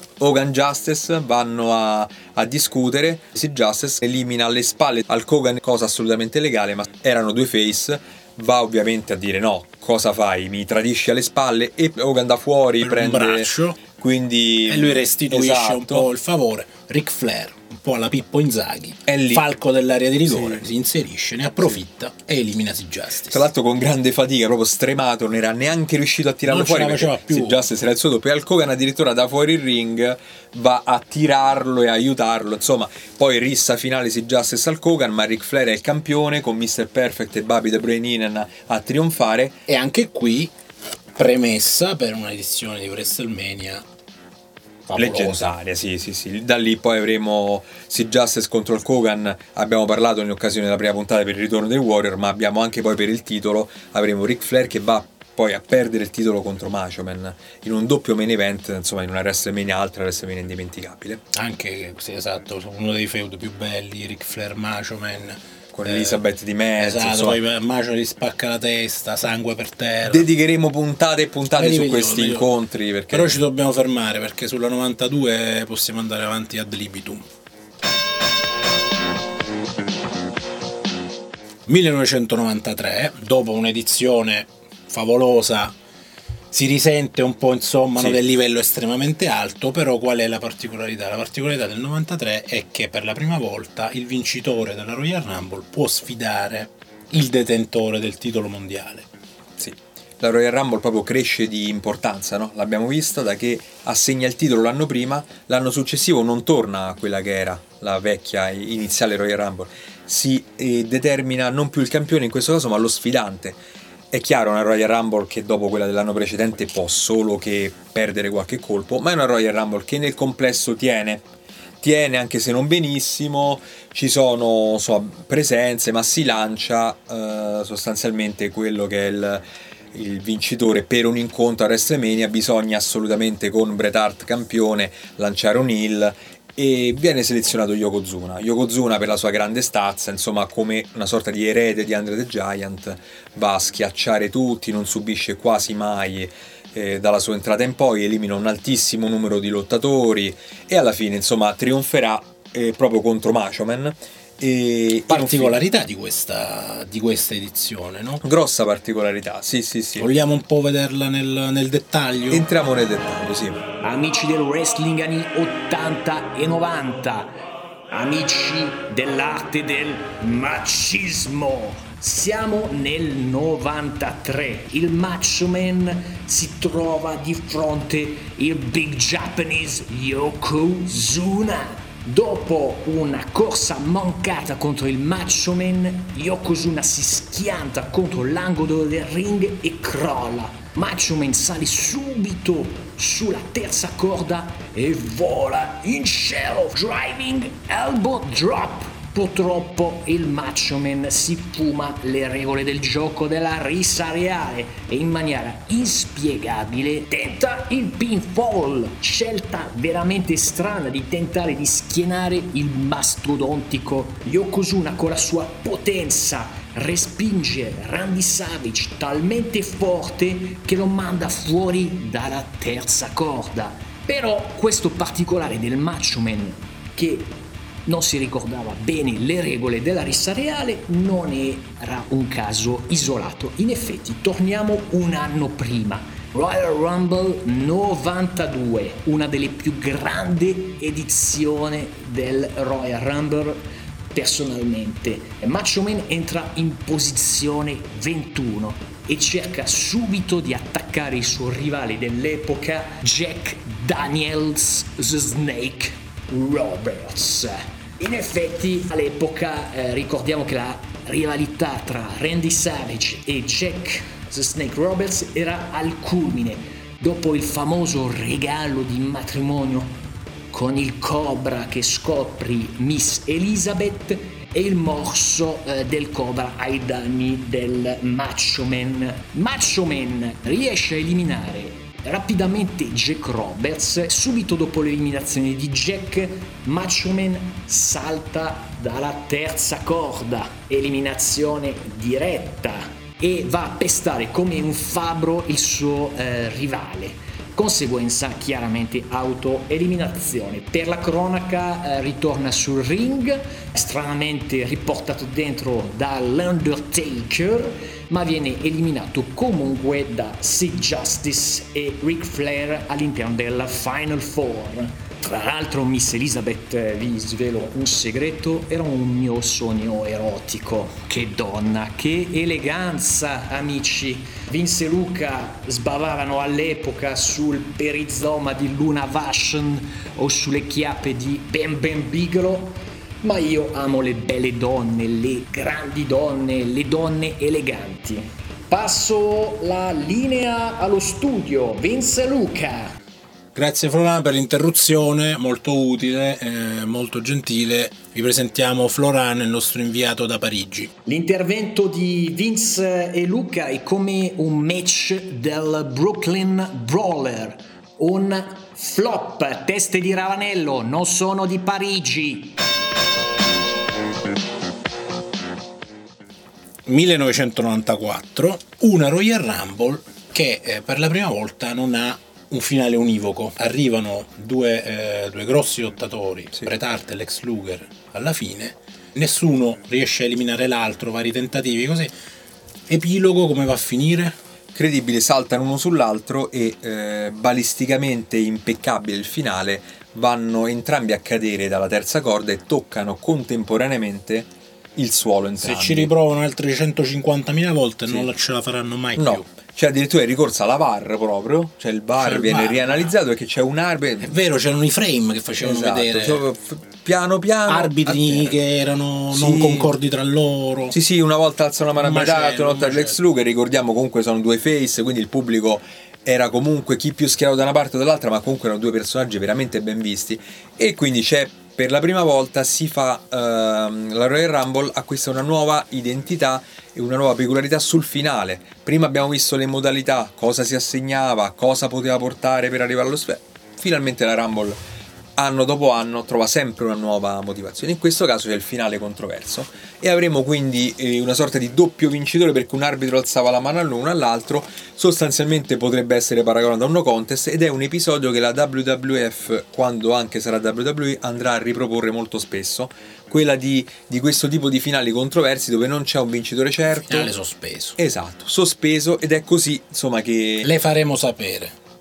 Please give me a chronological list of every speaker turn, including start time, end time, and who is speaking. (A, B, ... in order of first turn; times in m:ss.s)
0:00.2-0:16.1 A
0:12.8-0:13.8 B
0:14.7-0:23.5 B
0:19.1-0:19.5 A
0:20.3-0:20.6 A
0:23.3-0:39.6 A
0:26.4-0:27.6 B
0:39.7-0:40.5 B
0:41.2-0:43.8 B
0:44.9-0:45.5 B
0:45.0-1:01.2 A
1:01.3-1:06.2 B
1:05.8-1:07.4 A
1:06.8-1:10.3 B
1:10.0-1:13.4 A
1:11.6-1:12.5 B
1:13.1-1:17.3 B
1:21.7-1:25.8 B
1:26.5-1:39.1 B
1:39.6-1:53.6 A
1:54.1-2:01.2 A
2:01.8-2:35.6 A
2:35.1-2:38.2 B
2:38.2-2:40.1 A
2:40.0-2:42.5 B
2:42.3-2:43.6 A
2:43.8-2:47.4 C
2:47.9-5:43.0 C
5:43.6-5:50.9 B
5:51.1-6:02.6 C
6:06.9-6:22.1 B
6:22.9-6:24.4 B
6:24.7-6:36.1 A
6:35.6-6:39.5 B
6:39.2-6:44.4 A
6:42.2-6:43.1 B
6:44.2-6:46.4 B
6:45.6-6:48.6 A
6:47.7-6:51.0 B
6:49.3-6:49.9 A
6:50.9-7:14.8 A
6:52.0-6:53.2 B
7:15.4-7:37.3 A
7:37.0-7:38.0 B
7:38.0-7:40.7 A
7:40.6-7:41.8 B